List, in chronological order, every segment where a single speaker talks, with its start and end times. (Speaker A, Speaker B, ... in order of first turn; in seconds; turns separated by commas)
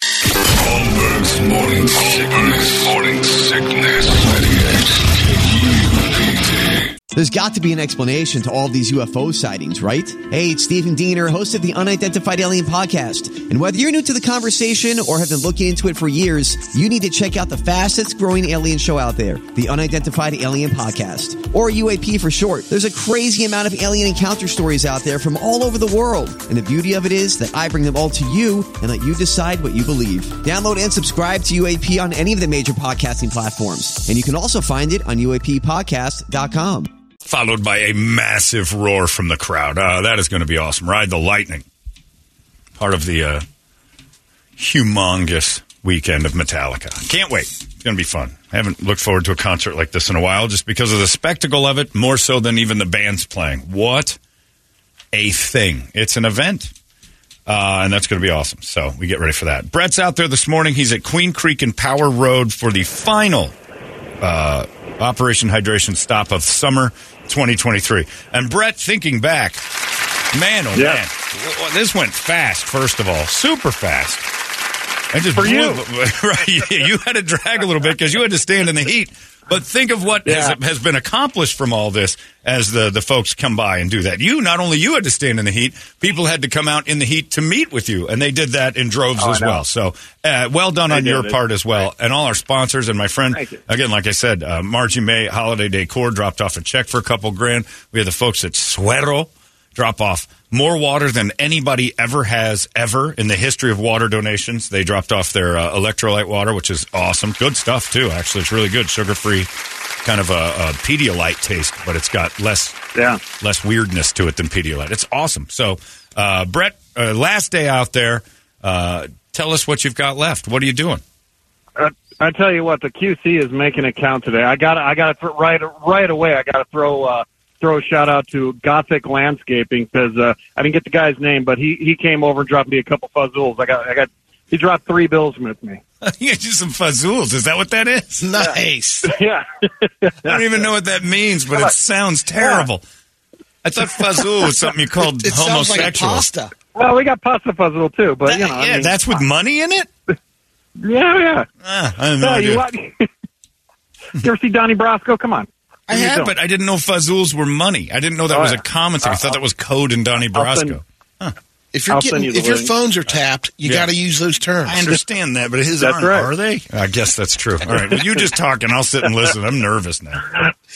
Speaker A: 0.5-6.9, Speaker B: 7.1-36.9, Speaker C: 37.2-41.6, Speaker C: 42.8-43.5, Speaker C: 44.6-54.2, Speaker C: 55.1-56.7, Speaker C: 57.5-63.5, Speaker C: 64.2-69.6, Speaker C: 70.3-74.2, Speaker D: 70.8-71.0, Speaker C: 75.1-109.5, Speaker D: 75.3-75.8, Speaker D: 80.2-80.6, Speaker D: 89.2-89.6, Speaker D: 90.9-91.4, Speaker D: 93.3-93.6, Speaker C: 110.0-112.8, Speaker D: 113.0-113.2, Speaker C: 113.4-121.0, Speaker D: 121.8-135.8, Speaker C: 136.0-138.3, Speaker E: 138.2-139.2, Speaker D: 139.1-140.6, Speaker C: 140.2-142.8, Speaker D: 142.4-142.7, Speaker C: 143.6-146.3, Speaker E: 145.1-146.5, Speaker D: 146.8-149.2, Speaker C: 148.3-149.9, Speaker D: 150.8-151.5, Speaker C: 151.6-152.7, Speaker D: 152.2-153.1, Speaker D: 154.2-156.3, Speaker C: 155.9-161.4, Speaker D: 158.3-159.4, Speaker D: 160.3-160.8, Speaker E: 161.7-164.9, Speaker D: 161.9-162.7, Speaker C: 163.6-163.9, Speaker C: 164.6-170.3, Speaker D: 165.8-166.3